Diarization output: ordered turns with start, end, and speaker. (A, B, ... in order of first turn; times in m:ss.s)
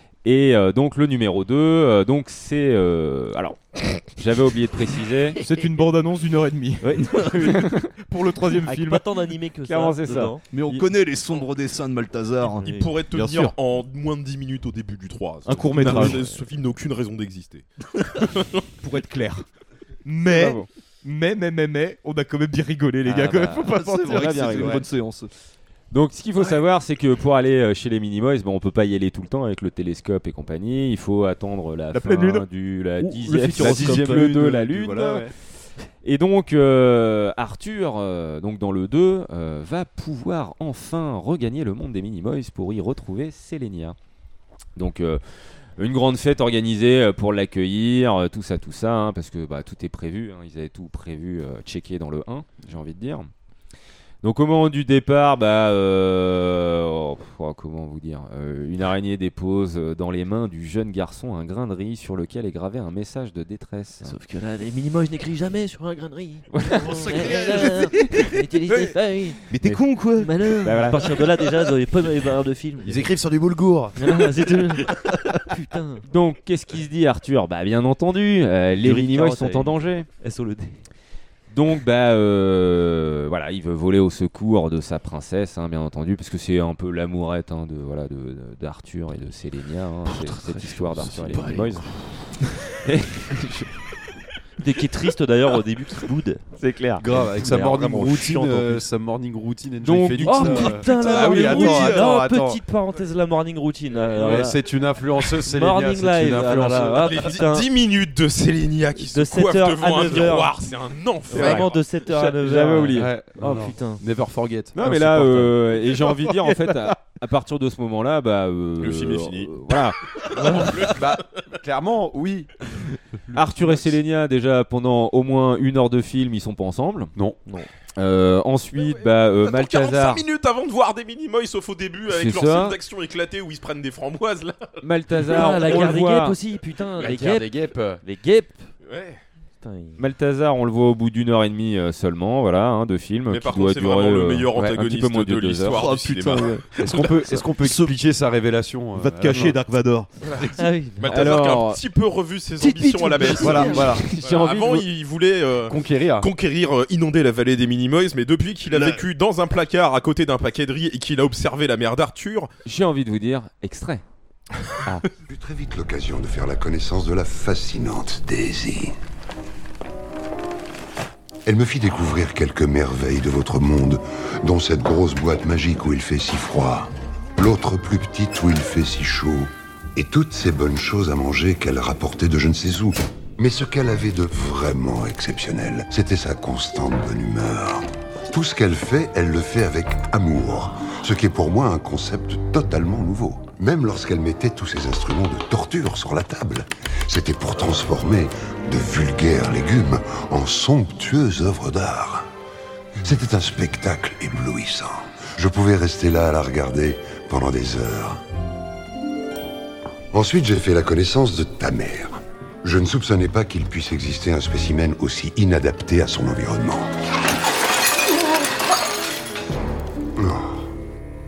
0:00.2-0:05.4 A
0:05.4-0:09.0 B
0:06.8-0:07.7 C
0:07.4-0:07.9 A
0:08.5-0:10.4 D
0:09.6-0:10.8 A
0:10.5-0:12.7 C
0:12.6-0:17.6 E
0:12.6-0:12.9 D
0:13.1-0:13.6 B
0:15.4-0:16.3 B
0:18.2-0:18.6 E
0:18.8-0:19.4 B
0:20.0-0:24.8 B
0:20.2-0:20.7 A
0:23.0-0:23.7 D
0:23.6-0:25.3 C
0:23.7-0:24.7 A
0:25.9-0:35.3 A
0:31.9-0:32.5 B
0:33.0-0:35.3 C
0:33.6-0:34.5 B
0:36.0-0:44.0 A
0:44.8-0:53.3 A
0:54.2-1:04.2 A
1:04.0-1:09.6 D
1:06.5-1:07.2 A
1:06.8-1:07.7 C
1:09.5-1:10.3 B
1:09.6-1:09.9 A
1:10.1-1:13.1 D
1:10.6-1:11.1 A
1:12.8-1:14.0 F
1:14.0-1:16.0 D
1:16.0-1:20.1 A
1:18.8-1:20.8 D
1:21.5-1:31.9 A
1:30.1-1:31.5 D
1:31.0-1:31.8 E
1:32.8-1:33.7 A
1:34.6-1:36.4 D
1:36.6-1:38.8 A
1:37.0-1:42.6 F
1:37.1-1:37.8 D
1:39.8-1:41.9 A
1:40.2-1:44.7 D
1:44.1-1:47.3 F
1:45.4-1:47.7 D
1:46.8-1:51.9 E
1:49.0-1:50.7 D
1:51.3-1:54.0 D
1:51.3-1:53.2 A
1:52.9-1:55.1 F
1:54.8-2:00.0 A
1:56.0-1:56.8 B
1:58.8-1:59.6 E
2:00.4-2:00.8 D
2:00.4-2:01.2 E
2:00.8-2:02.5 F
2:03.3-2:07.1 A
2:08.0-2:10.2 A
2:08.7-2:14.8 E
2:12.1-2:12.8 A
2:14.8-2:16.4 A
2:15.2-2:17.5 D
2:17.0-2:18.0 F
2:18.1-2:18.7 D
2:18.8-2:19.2 E
2:19.6-2:20.0 D
2:20.0-2:25.8 A
2:23.3-2:27.4 E
2:25.7-2:28.0 C
2:26.8-2:29.6 F
2:28.9-2:30.1 B
2:30.6-2:31.2 D
2:31.0-2:42.5 E
2:31.0-2:31.8 A
2:32.6-2:33.9 D
2:32.6-2:34.9 A
2:33.2-2:34.1 F
2:35.7-2:36.3 F
2:42.6-2:44.0 A
2:45.3-2:48.9 G
2:51.4-3:22.2 G
3:23.0-3:28.2 G
3:30.1-3:36.9 G
3:40.2-3:40.6 G